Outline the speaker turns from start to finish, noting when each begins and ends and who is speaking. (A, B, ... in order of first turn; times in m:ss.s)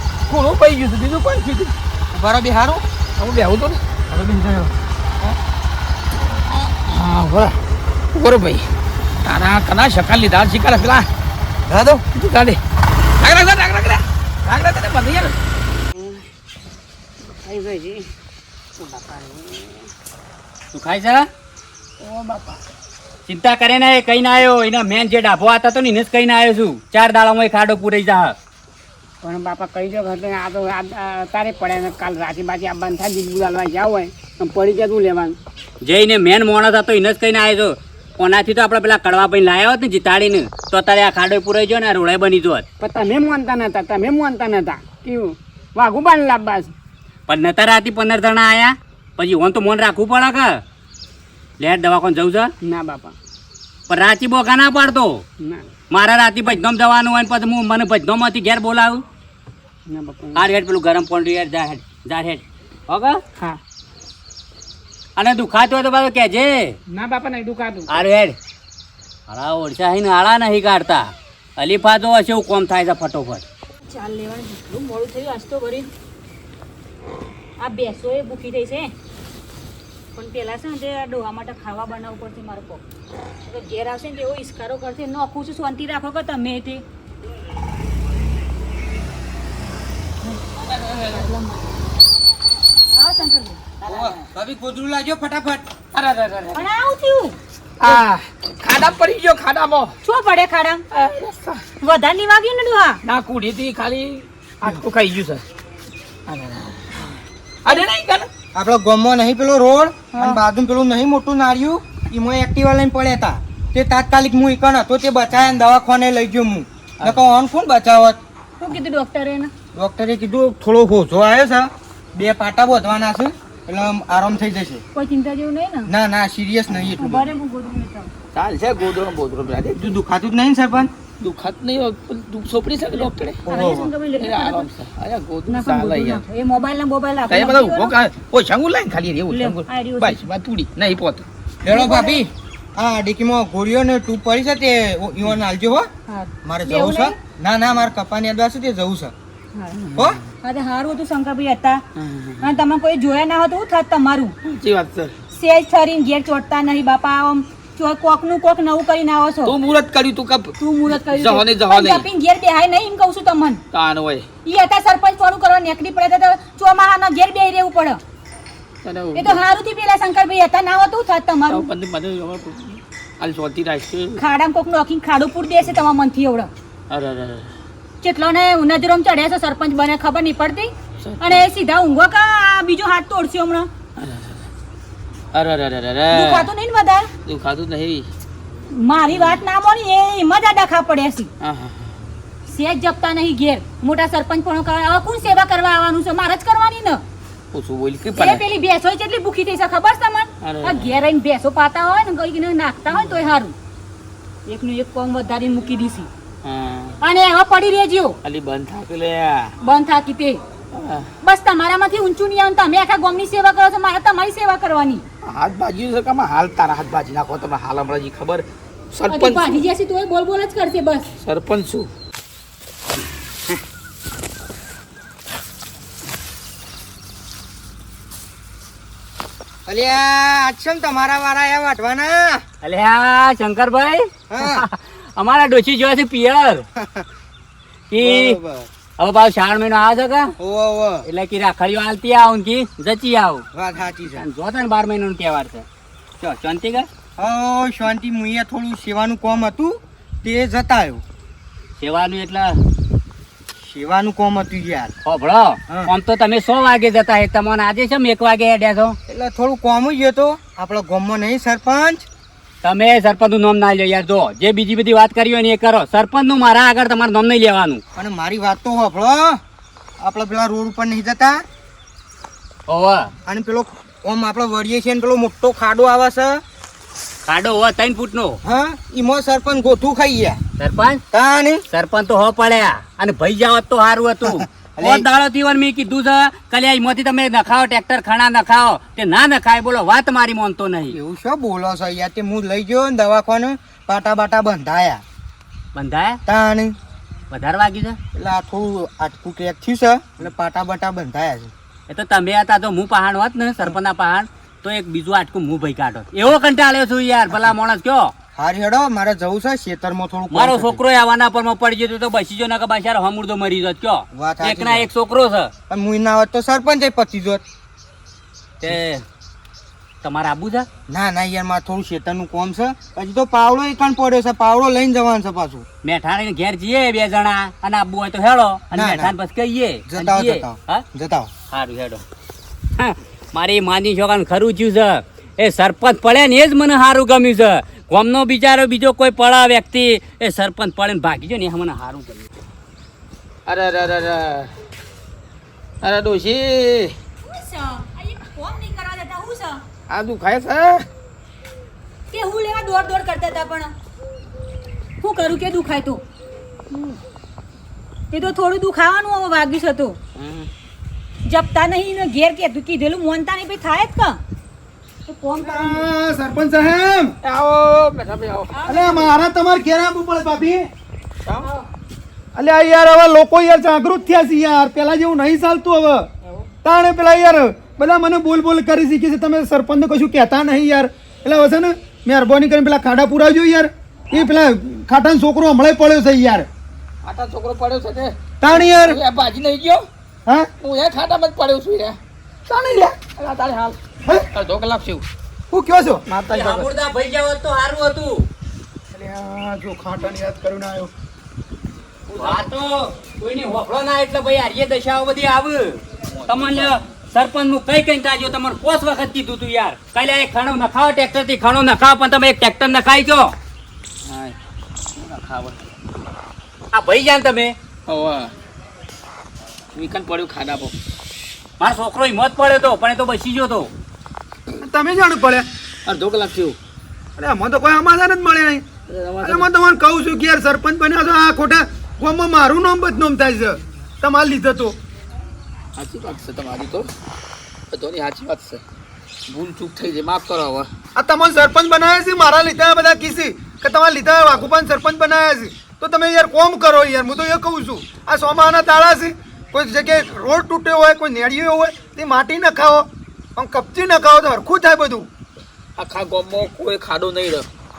0:00.3-0:01.7 A
0:02.1-0:02.8 B
0:03.2-0:03.8 A
0:06.7-0:07.6 A
0:08.1-0:08.7 A
0:09.2-0:11.1 A
0:11.7-0:12.0 B
0:12.1-0:12.6 A
0:13.2-0:15.4 A
0:17.3-0:18.0 C
0:18.8-0:19.8 C
0:20.7-0:21.2 D
0:22.0-0:22.6 C
0:23.3-0:28.4 D
0:29.2-0:35.4 C
0:35.8-0:42.6 D
0:42.8-0:46.7 C
0:47.3-0:50.6 D
0:51.6-0:52.5 D
0:52.6-0:53.1 C
0:53.9-0:55.2 D
0:55.9-0:59.0 D
0:59.9-1:00.5 C
1:00.3-1:03.2 D
1:05.2-1:06.7 D
1:06.9-1:08.0 C
1:07.9-1:08.3 D
1:09.3-1:13.4 D
1:13.8-1:15.9 E
1:17.6-1:18.9 E
1:20.1-1:22.8 E
1:23.4-1:26.8 E
1:30.7-1:31.3 A
1:31.0-1:31.5 E
1:32.9-1:33.6 E
1:33.8-1:35.6 B
1:35.9-1:36.6 A
1:36.5-1:37.4 E
1:37.8-1:39.9 A
1:40.0-1:40.8 E
1:40.9-1:41.6 A
1:41.8-1:43.0 E
1:43.0-1:45.4 A
1:46.3-1:47.0 A
1:47.6-1:48.3 A
1:48.5-1:58.2 B
1:50.1-1:50.4 E
1:58.6-1:59.5 E
1:59.7-2:04.8 B
2:04.9-2:05.9 E
2:05.8-2:07.3 B
2:07.0-2:08.1 E
2:08.3-2:09.9 A
2:09.8-2:10.9 B
2:11.2-2:13.4 A
2:13.4-2:13.9 B
2:13.5-2:14.6 E
2:14.2-2:16.2 A
2:15.5-2:17.9 E
2:17.3-2:21.2 A
2:19.3-2:20.2 E
2:21.6-2:25.9 B
2:21.6-2:22.2 E
2:26.1-2:27.2 E
2:26.4-2:29.1 B
2:29.7-2:30.2 A
2:30.4-2:31.8 E
2:32.0-2:32.5 A
2:32.4-2:34.3 E
2:34.4-2:35.1 A
2:35.3-2:39.5 E
2:39.4-2:42.1 A
2:40.6-2:43.6 E
2:43.7-2:44.2 A
2:44.4-2:48.0 E
2:48.8-2:49.4 A
2:49.1-2:51.6 E
2:51.5-2:54.2 A
2:54.2-2:56.5 E
2:56.9-2:57.5 A
2:58.0-3:03.7 E
3:01.0-3:01.4 A
3:04.0-3:04.4 A
3:05.3-3:06.5 A
3:06.1-3:07.1 E
3:07.2-3:08.1 A
3:08.7-3:11.3 E
3:09.1-3:09.4 A
3:11.4-3:11.9 A
3:12.5-3:17.0 E
3:17.5-3:18.4 A
3:18.2-3:23.5 E
3:20.4-3:21.0 A
3:24.5-3:26.1 E
3:26.4-3:27.0 A
3:27.0-3:28.2 E
3:28.2-3:29.5 A
3:29.6-3:30.4 E
3:30.7-3:31.1 A
3:31.2-3:35.0 E
3:35.2-3:39.6 A
3:39.1-3:41.1 E
3:41.2-3:41.9 A
3:49.7-3:52.4 B
3:52.6-3:56.7 D
3:54.3-3:54.7 B
3:56.8-3:57.0 B
3:57.9-3:58.4 D
3:58.0-3:58.7 B
3:59.0-4:00.3 D
4:00.4-4:01.0 B
4:01.0-4:03.4 D
4:03.5-4:04.2 B
4:04.1-4:05.6 D
4:06.2-4:06.8 D
4:07.2-4:11.0 B
4:11.8-4:12.6 D
4:13.5-4:14.9 B
4:15.0-4:19.0 D
4:19.1-4:22.1 B
4:22.6-4:27.8 D
4:27.9-4:29.4 B
4:30.0-4:31.4 B
4:32.7-4:33.1 D
4:33.2-4:36.4 B
4:37.2-4:38.4 D
4:38.4-4:40.4 B
4:40.6-4:41.0 D
4:41.1-4:41.6 B
4:41.7-4:51.0 D
4:44.2-4:45.0 B
4:50.9-4:55.0 B
4:55.7-4:56.2 D
4:56.2-4:56.8 B
4:57.3-4:58.0 D
4:58.1-5:01.5 B
5:01.9-5:08.1 D
5:08.4-5:10.8 B
5:10.3-5:15.5 D
5:14.1-5:14.9 B
5:15.7-5:17.4 B
5:18.6-5:19.0 D
5:20.0-5:20.7 D
5:20.9-5:25.6 B
5:25.8-5:30.8 D
5:28.7-5:29.1 B
5:29.9-5:31.3 B
5:31.5-5:32.0 D
5:32.8-5:42.3 D
5:43.5-5:44.5 A
5:45.8-5:46.9 A
5:47.3-5:49.6 E
5:49.9-5:50.9 A
5:52.1-5:53.7 E
5:55.0-5:56.0 E
5:58.1-6:00.0 E
6:00.2-6:00.5 A
6:01.3-6:04.2 E
6:05.1-6:05.8 E
6:05.4-6:07.2 F
6:07.2-6:09.0 A
6:08.5-6:09.1 E
6:08.7-6:10.7 F
6:12.3-6:16.1 F
6:16.6-6:26.5 F
6:27.0-6:29.8 A
6:28.4-6:29.0 F
6:30.6-6:32.0 A
6:32.5-6:33.8 A
6:34.3-6:35.0 A
6:35.5-6:36.1 F
6:36.1-6:36.7 A
6:36.3-6:38.3 D
6:38.9-6:40.9 F
6:42.1-6:42.5 A
6:42.2-6:53.3 D
6:46.3-6:46.7 A
6:54.0-6:54.4 A
6:54.9-6:55.6 A
6:56.7-6:57.6 D
6:57.9-6:58.3 A
6:59.7-7:00.7 A
7:01.6-7:03.7 D
7:04.6-7:05.4 F
7:05.8-7:06.6 A
7:07.2-7:08.6 F
7:08.9-7:09.5 A
7:09.2-7:14.8 F
7:15.8-7:16.9 A
7:17.7-7:18.6 A
7:19.3-7:20.7 A
7:21.0-7:35.1 F
7:35.8-7:37.5 A